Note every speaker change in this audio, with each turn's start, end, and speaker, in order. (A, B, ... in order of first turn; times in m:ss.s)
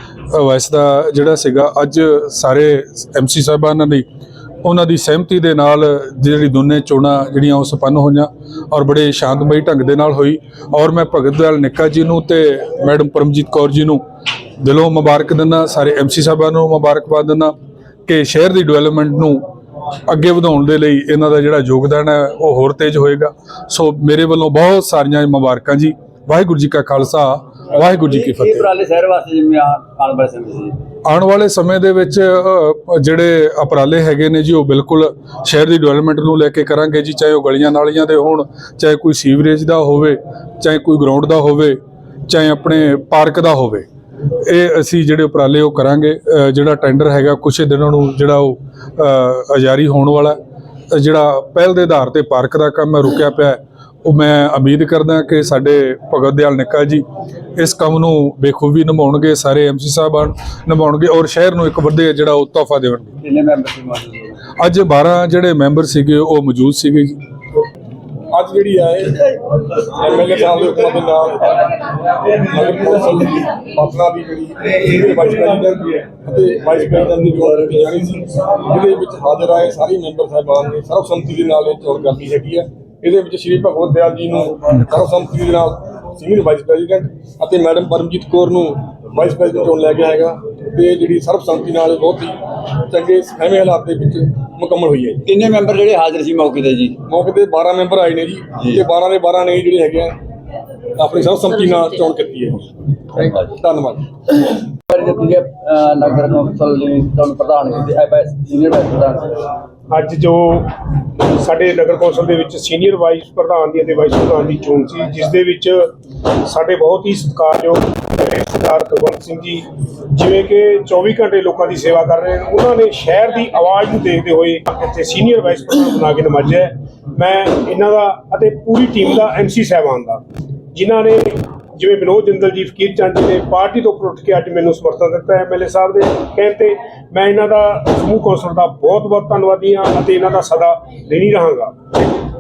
0:00.3-0:04.0 A
0:04.6-0:14.0 A
0:14.6-0:17.5 A
0:18.1-0:19.4 A
0:20.1-0:28.7 A
0:28.0-0:30.8 B
0:31.0-0:43.9 A
0:44.4-0:50.4 A
0:50.9-0:57.0 A
0:57.6-1:03.2 A
1:03.2-1:04.4 B
1:04.6-1:07.2 A
1:08.3-1:11.7 C
1:12.3-1:35.2 C
1:35.3-1:37.0 B
1:37.1-1:40.2 C
1:41.0-1:42.7 C
1:43.4-1:44.1 C
1:44.4-1:49.5 B
1:49.9-2:10.2 D
2:10.7-2:21.7 D